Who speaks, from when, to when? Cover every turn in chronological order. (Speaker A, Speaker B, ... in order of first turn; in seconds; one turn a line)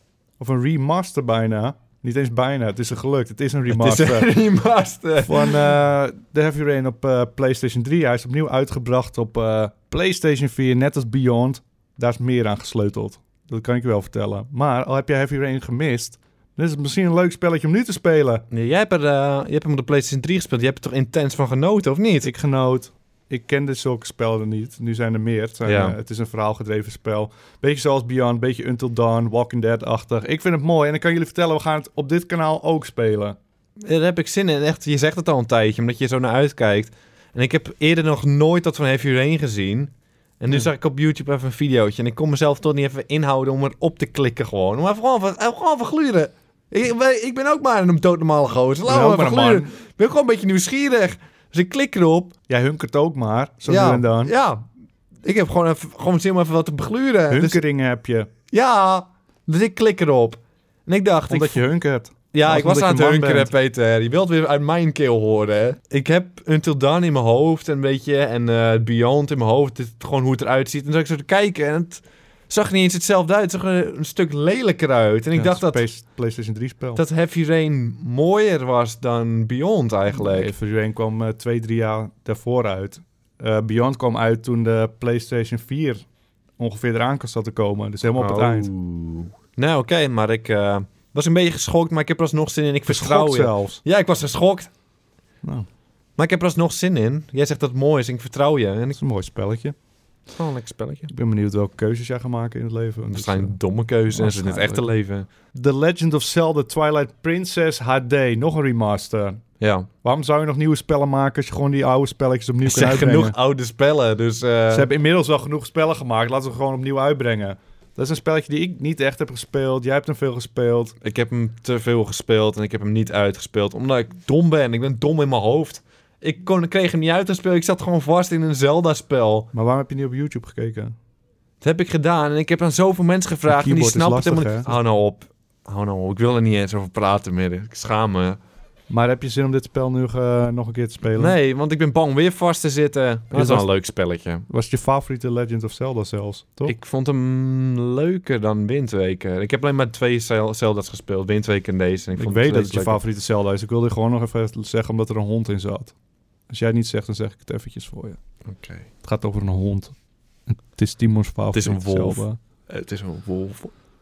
Speaker A: 0.4-4.3
Speaker B: 3.7-5.6
Speaker A: 5.2-18.4
Speaker B: 18.5-22.3
Speaker A: 22.2-33.4
Speaker B: 25.6-25.9
Speaker B: 33.8-52.3
Speaker A: 48.9-49.7
Speaker A: 52.5-54.3
Speaker B: 53.7-54.6
Speaker B: 55.2-57.6
Speaker A: 57.3-58.3
Speaker B: 58.5-61.6
Speaker A: 61.3-63.5
Speaker B: 62.3-75.8
Speaker A: 75.3-77.0
Speaker B: 76.9-80.5
Speaker A: 80.1-86.0
Speaker A: 86.6-88.7
Speaker B: 88.1-94.7
Speaker A: 92.9-93.8
Speaker B: 96.2-99.0
Speaker A: 98.9-99.7
Speaker B: 100.3-101.1
Speaker A: 101.1-103.6
Speaker B: 103.1-105.3
Speaker A: 104.1-104.9
Speaker A: 105.5-109.4
Speaker B: 109.6-109.9
Speaker A: 110.0-113.3
Speaker B: 112.6-114.9
Speaker A: 114.7-120.9
Speaker B: 121.0-129.5
Speaker A: 129.5-130.9
Speaker B: 131.6-138.4
Speaker A: 133.5-134.7
Speaker A: 138.9-141.3
Speaker B: 141.1-144.4
Speaker A: 143.3-143.7
Speaker A: 144.5-146.7
Speaker B: 146.6-153.0
Speaker A: 152.2-155.9
Speaker A: 156.5-158.2
Speaker B: 158.4-158.8
Speaker A: 159.0-159.9
Speaker A: 160.5-162.4
Speaker B: 161.5-163.7